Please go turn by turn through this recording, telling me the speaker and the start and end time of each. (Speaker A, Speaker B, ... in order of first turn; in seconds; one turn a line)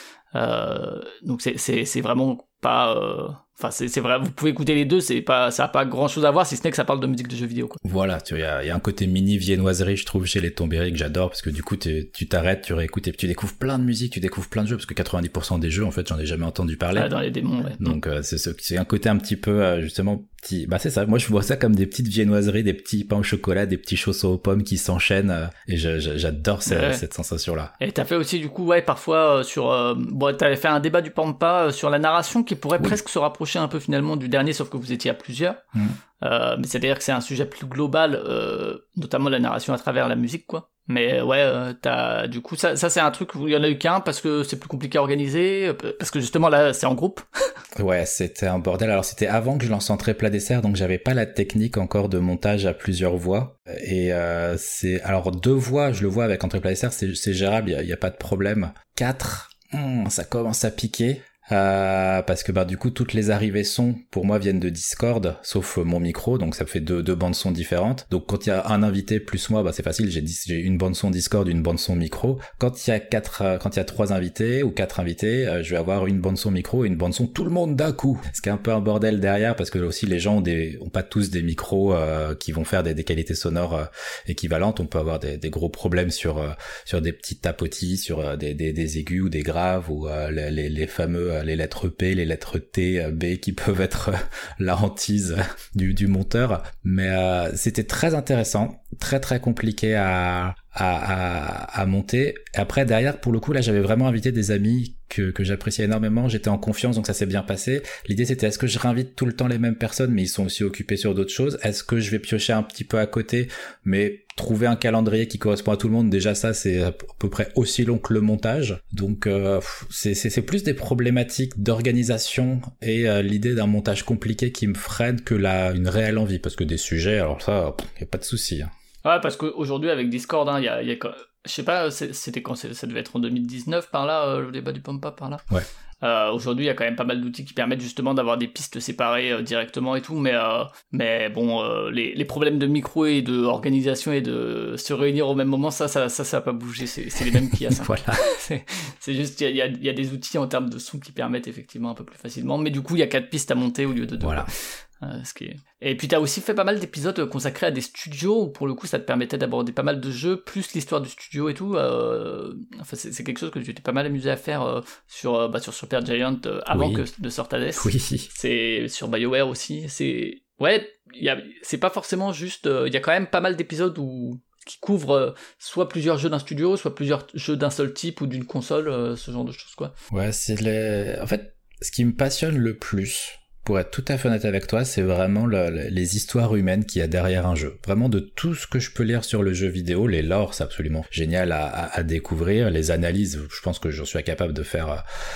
Speaker A: 0.3-7.8
Speaker B: 7.8-17.1
Speaker A: 16.9-17.9
Speaker B: 17.8-27.7
Speaker A: 26.7-27.0
Speaker A: 27.8-35.6
Speaker A: 36.2-47.2
Speaker B: 47.8-128.7
Speaker A: 129.0-135.4
Speaker A: 136.0-179.9
Speaker B: 147.3-148.2
Speaker B: 154.2-154.5
Speaker B: 166.7-167.0
Speaker B: 167.8-168.3
Speaker B: 180.1-195.0